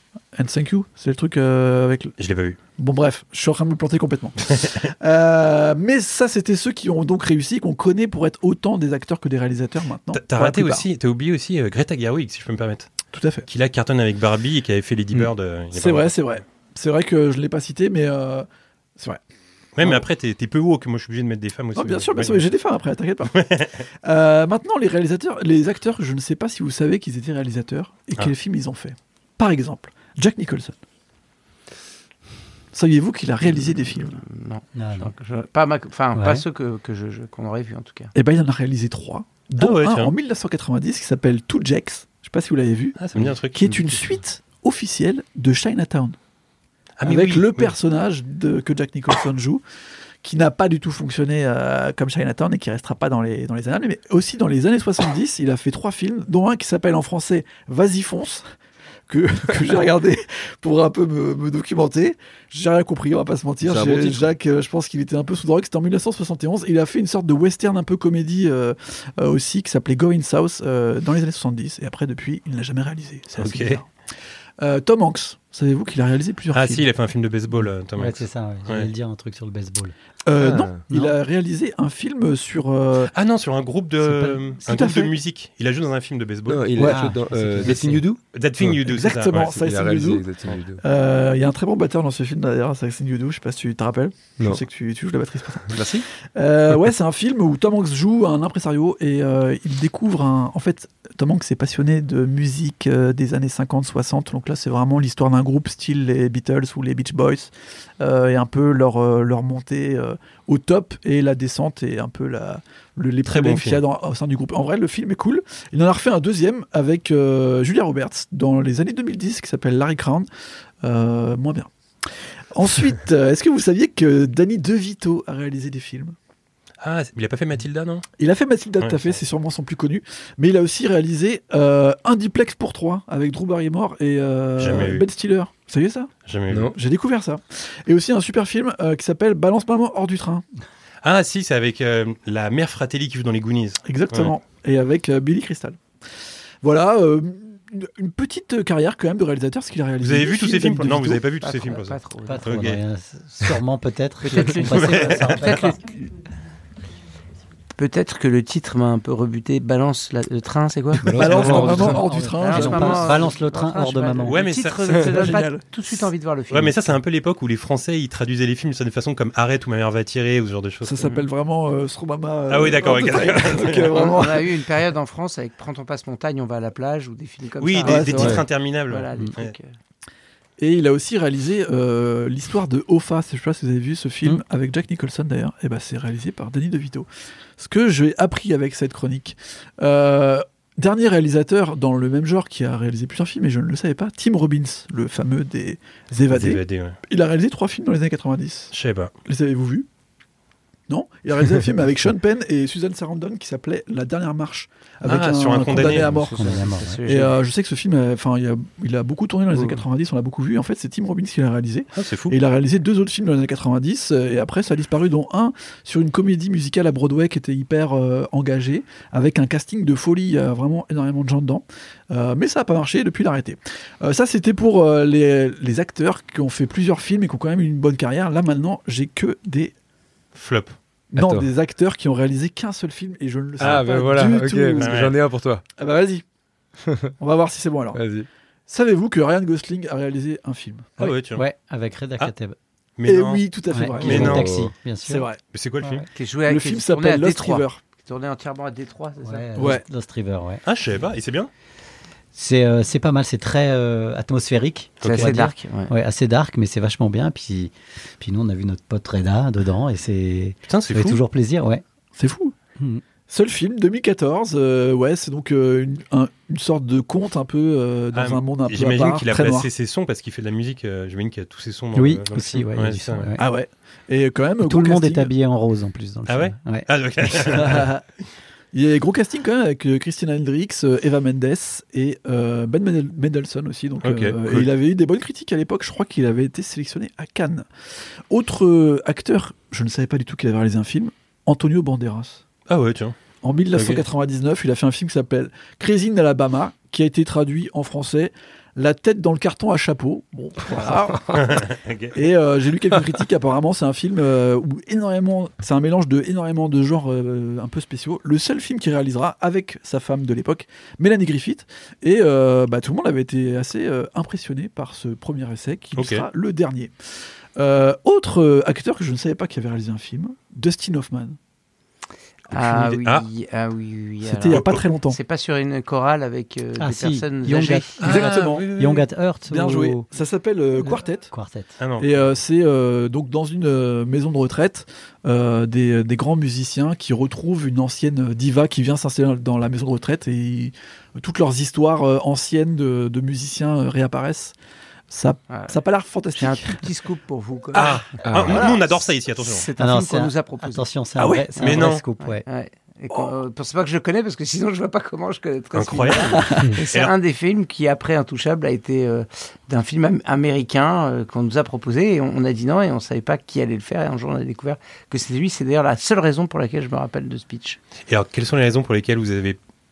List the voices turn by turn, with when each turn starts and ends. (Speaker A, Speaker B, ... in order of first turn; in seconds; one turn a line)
Speaker A: 0.3-2.1
Speaker B: 2.2-2.6
Speaker A: 2.8-10.8
Speaker B: 10.1-12.9
Speaker A: 13.1-13.5
Speaker B: 13.5-16.2
Speaker A: 15.7-18.5
Speaker B: 19.8-22.5
Speaker A: 21.8-23.4
Speaker B: 23.3-23.8
Speaker A: 24.0-30.8
Speaker A: 32.7-34.2
Speaker C: 34.1-38.1
Speaker D: 34.8-35.1
Speaker D: 36.1-36.4
Speaker A: 38.1-43.0
Speaker B: 39.6-40.1
Speaker B: 43.0-43.9
Speaker A: 43.5-46.2
Speaker B: 47.0-47.7
Speaker A: 47.0-49.6
Speaker A: 50.2-58.5
Speaker A: 59.1-73.9
Speaker E: 63.6-64.3
Speaker B: 73.3-73.8
Speaker A: 74.6-76.9
Speaker B: 76.5-78.9
Speaker D: 78.0-79.9
Speaker A: 80.3-83.1
Speaker E: 80.4-80.9
Speaker D: 80.9-81.2
Speaker B: 83.1-87.0
Speaker A: 84.2-85.1
Speaker E: 86.5-88.8
Speaker D: 86.8-88.0
Speaker B: 87.6-89.5
Speaker A: 88.8-90.3
Speaker E: 89.3-90.8
Speaker A: 90.8-120.3
Speaker E: 95.7-96.1
Speaker B: 113.3-113.8
Speaker A: 120.8-121.7
Speaker A: 122.5-126.2
Speaker B: 126.8-128.1
Speaker A: 128.2-136.1
Speaker B: 128.8-129.2
Speaker B: 134.6-135.1
Speaker B: 136.3-136.7
Speaker E: 136.5-136.8
Speaker A: 136.7-140.4
Speaker B: 141.0-144.3
Speaker A: 143.8-145.8
Speaker A: 146.6-151.2
Speaker B: 150.0-152.8
Speaker C: 151.4-152.5
Speaker D: 152.3-155.8
Speaker C: 154.2-156.1
Speaker B: 154.6-155.6
Speaker C: 157.8-161.7
Speaker E: 161.0-162.0
Speaker A: 161.2-163.3
Speaker D: 161.3-164.4
Speaker C: 162.4-166.8
Speaker B: 164.3-165.0
Speaker A: 165.0-165.6
Speaker B: 166.5-171.1
Speaker A: 170.8-174.6
Speaker B: 172.5-173.9
Speaker C: 173.9-179.7
Speaker B: 177.6-179.5
Speaker A: 177.8-178.4
Speaker A: 180.6-187.1
Speaker A: 187.6-198.7
Speaker B: 196.3-197.0
Speaker B: 198.7-199.1
Speaker A: 199.3-199.9
Speaker A: 200.9-229.7
Speaker B: 205.1-206.1
Speaker D: 205.8-207.0
Speaker C: 206.1-207.3
Speaker B: 211.9-212.4
Speaker B: 230.3-230.8
Speaker A: 231.1-235.0
Speaker E: 231.2-231.5
Speaker B: 233.6-235.2
Speaker E: 233.6-235.6
Speaker A: 235.8-236.2
Speaker E: 236.8-237.1
Speaker A: 237.2-238.0
Speaker E: 237.9-238.3
Speaker A: 238.7-241.0
Speaker B: 241.0-241.4
Speaker D: 241.0-242.6
Speaker B: 243.0-243.4
Speaker A: 243.1-244.4
Speaker D: 243.7-245.3
Speaker B: 244.0-244.5
Speaker E: 244.0-244.8
Speaker A: 245.0-245.4
Speaker B: 245.5-246.1
Speaker D: 245.8-246.1
Speaker C: 246.1-249.7
Speaker A: 246.5-247.8
Speaker D: 249.2-250.6
Speaker A: 249.6-249.8
Speaker B: 250.7-251.5
Speaker D: 252.3-261.8
Speaker B: 255.0-255.3
Speaker C: 255.0-255.9
Speaker B: 260.7-261.2
Speaker A: 262.1-262.6
Speaker A: 263.3-269.7
Speaker B: 268.1-273.3
Speaker D: 271.9-273.4
Speaker A: 273.4-275.3
Speaker D: 274.6-276.9
Speaker B: 276.3-277.9
Speaker A: 277.5-278.0
Speaker A: 278.7-287.7
Speaker B: 284.0-284.7
Speaker A: 288.3-292.4
Speaker B: 292.7-293.2
Speaker A: 293.4-301.5
Speaker B: 293.7-294.0
Speaker B: 301.3-302.3
Speaker A: 302.1-316.9
Speaker B: 315.9-316.3
Speaker A: 317.6-321.4
Speaker B: 322.5-323.2
Speaker C: 322.5-328.0
Speaker A: 324.3-325.2
Speaker B: 324.5-324.8
Speaker D: 326.8-330.1
Speaker B: 328.0-329.1
Speaker A: 328.0-328.3
Speaker A: 329.5-331.3
Speaker D: 330.8-331.8
Speaker B: 331.8-332.1
Speaker A: 332.0-344.6
Speaker A: 345.1-346.9
Speaker C: 345.5-345.8
Speaker C: 346.4-348.8
Speaker A: 347.7-348.0
Speaker B: 347.8-349.7
Speaker E: 348.2-348.7
Speaker C: 349.4-350.9
Speaker D: 349.8-352.4
Speaker A: 351.2-351.6
Speaker B: 351.6-352.0
Speaker C: 352.2-367.8
Speaker B: 355.7-357.1
Speaker A: 356.4-356.7
Speaker B: 368.1-369.6